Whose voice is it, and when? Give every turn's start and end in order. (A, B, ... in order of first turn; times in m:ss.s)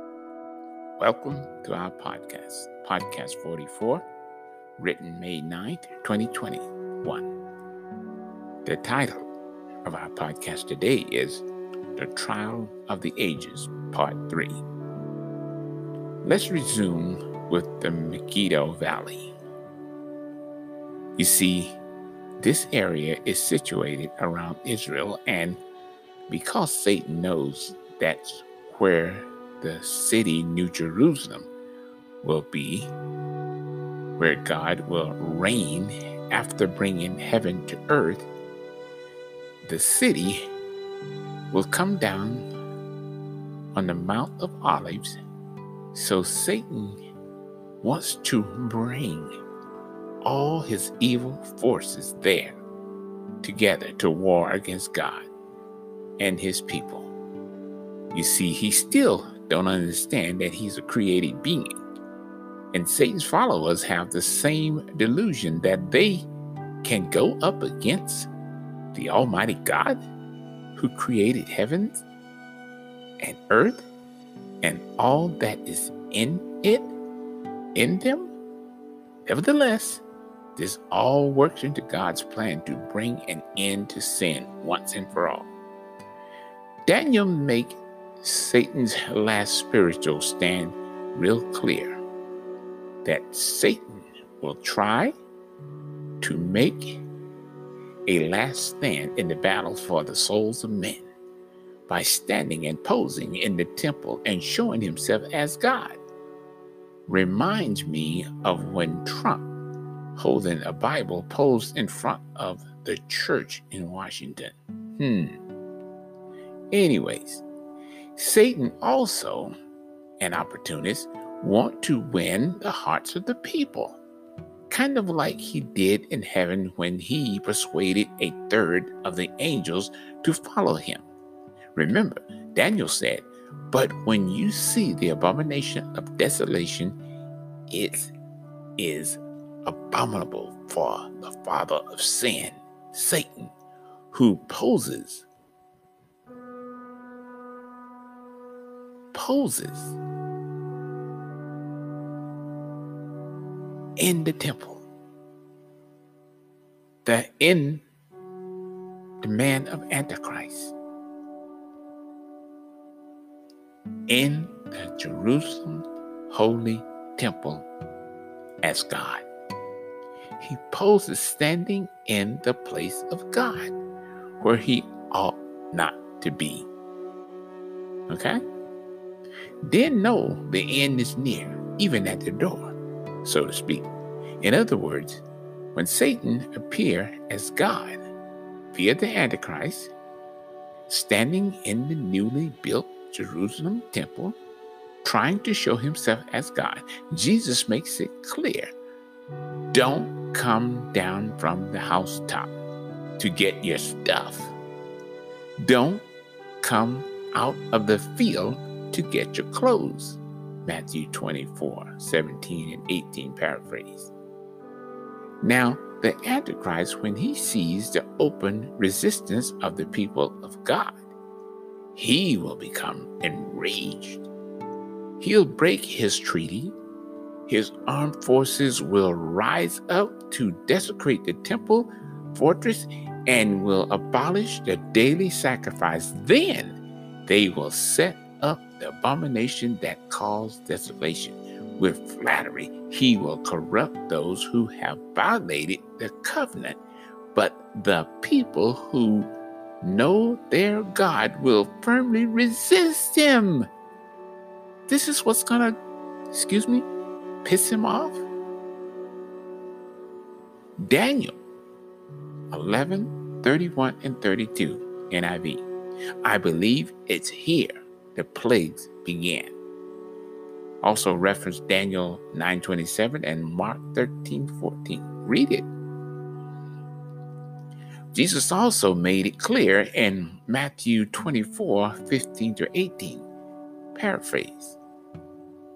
0:01.0-0:04.0 A
0:04.8-0:07.3 A
0:08.6-0:09.3 A
0:09.8-0:14.6 A
0:16.2-0:19.3 A
0:21.2-0:21.8 A
0:22.4-0:25.6 A
0:26.3-0:31.5 A
0:32.2-0:32.9 A
0:34.2-0:38.3 A
0:39.6-0:40.5 A
0:41.5-0:42.5 A
0:43.7-0:45.2 A
0:45.9-0:47.0 A
0:47.8-0:49.4 A
0:50.2-0:52.6 A
0:53.4-0:55.3 A
0:56.2-0:57.1 A
0:58.1-1:01.8 A
1:02.7-1:06.3 A
1:06.8-1:08.3 A
1:08.9-1:10.0 A
1:10.8-1:12.0 A
1:13.2-1:13.9 A
1:14.6-1:17.0 A
1:17.8-1:18.3 A
1:19.3-1:20.0 A
1:20.6-1:25.5 A
1:26.9-1:32.0 A
1:33.0-1:35.1 A
1:36.2-1:37.0 A
1:38.1-1:41.1 A
1:41.9-1:46.0 A
1:47.1-1:49.5 A
1:50.2-1:55.4 A
1:56.7-1:57.4 A
1:58.2-1:59.5 A
2:00.2-2:04.0 A
2:04.7-2:11.1 A
2:11.8-2:17.0 A
2:17.7-2:18.1 A
2:18.8-2:23.5 A
2:24.1-2:25.3 A
2:29.1-2:30.0 A
2:34.0-2:34.8 A
2:37.0-2:37.8 A
2:39.2-2:40.8 A
2:44.1-2:47.7 A
2:48.6-2:49.2 A
2:50.4-2:53.7 A
2:54.4-2:56.7 A
2:58.1-2:58.4 A
2:59.6-3:03.9 A
3:04.4-3:05.2 A
3:05.7-3:08.0 A
3:08.7-3:09.9 A
3:10.9-3:14.4 A
3:15.0-3:18.7 A
3:19.7-3:22.5 A
3:23.2-3:24.5 A
3:25.6-3:26.0 A
3:26.6-3:34.1 A
3:35.4-3:41.0 A
3:41.9-3:44.3 A
3:45.2-3:46.8 A
3:47.5-4:06.8 A
4:07.3-4:09.3 A
4:09.8-4:13.7 A
4:14.9-4:15.8 A
4:16.3-4:16.9 A
4:17.4-4:18.2 A
4:20.8-4:21.4 A
4:22.5-4:25.7 A
4:26.2-4:29.5 A
4:30.8-4:35.7 A
4:38.1-4:43.3 A
4:44.0-4:44.8 A